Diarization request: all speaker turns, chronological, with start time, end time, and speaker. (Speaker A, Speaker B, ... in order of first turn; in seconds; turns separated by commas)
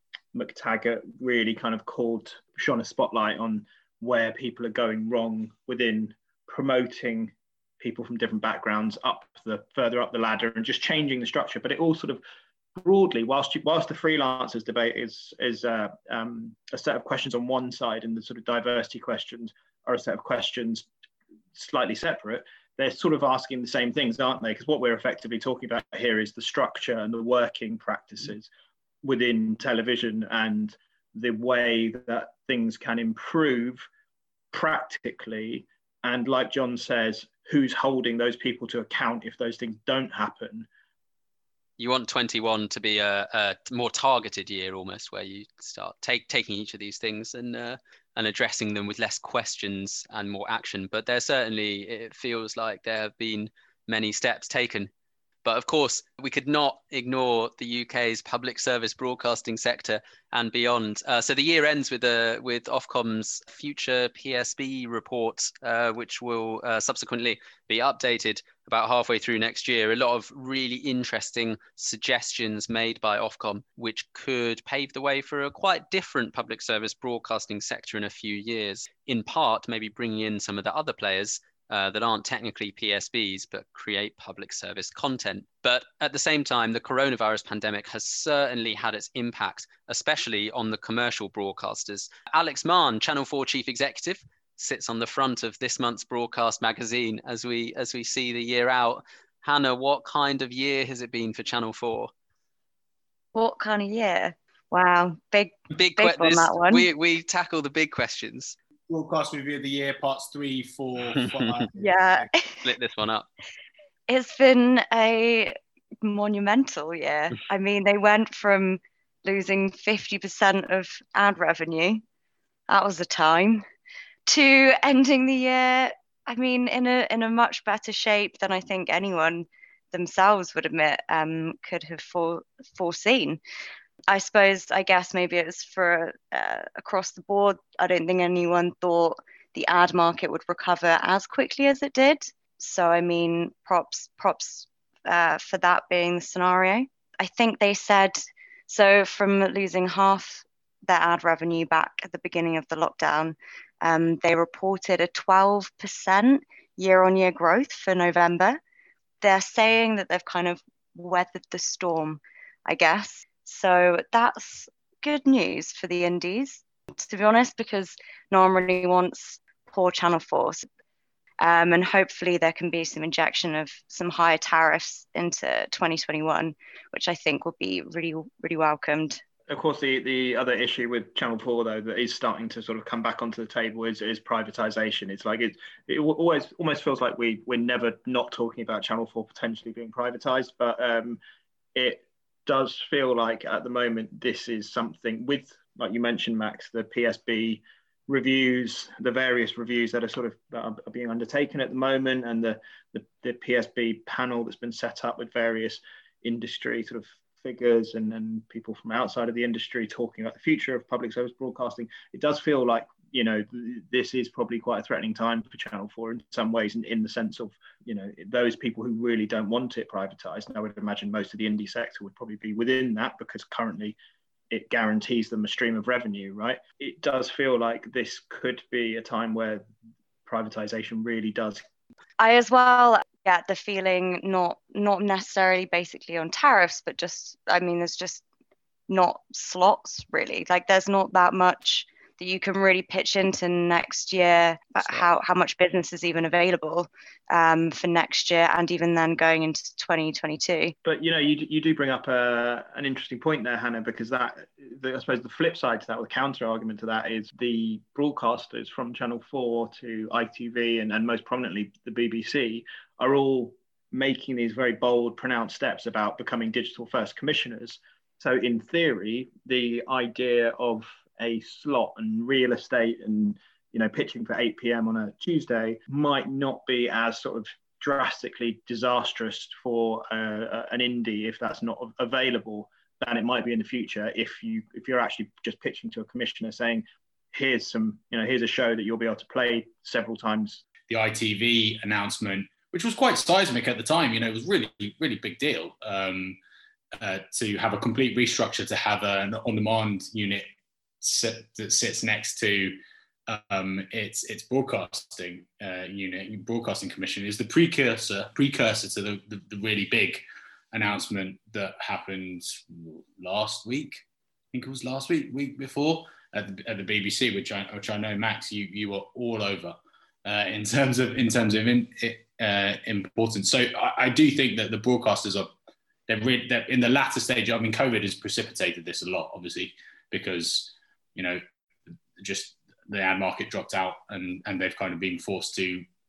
Speaker A: 0.3-12.2, Speaker A: 12.8-20.9, Speaker A: 21.5-28.5, Speaker A: 29.0-33.9, Speaker A: 34.5-40.7, Speaker B: 41.8-54.9, Speaker B: 55.4-102.1, Speaker C: 103.3-106.9, Speaker B: 105.7-108.5, Speaker D: 108.9-112.3, Speaker B: 111.1-111.7, Speaker C: 111.7-112.7, Speaker B: 112.6-113.3, Speaker C: 114.1-122.0, Speaker C: 122.7-123.6, Speaker C: 124.3-133.4, Speaker C: 134.1-158.6, Speaker C: 159.2-170.7, Speaker C: 171.4-179.2, Speaker A: 179.5-191.2, Speaker A: 191.7-224.0, Speaker A: 224.5-229.7, Speaker A: 230.2-231.6, Speaker C: 232.2-238.2, Speaker C: 238.9-250.7, Speaker A: 250.8-290.6, Speaker D: 290.9-296.4, Speaker D: 297.0-300.5, Speaker D: 301.0-325.5, Speaker D: 326.1-331.4, Speaker D: 332.2-335.8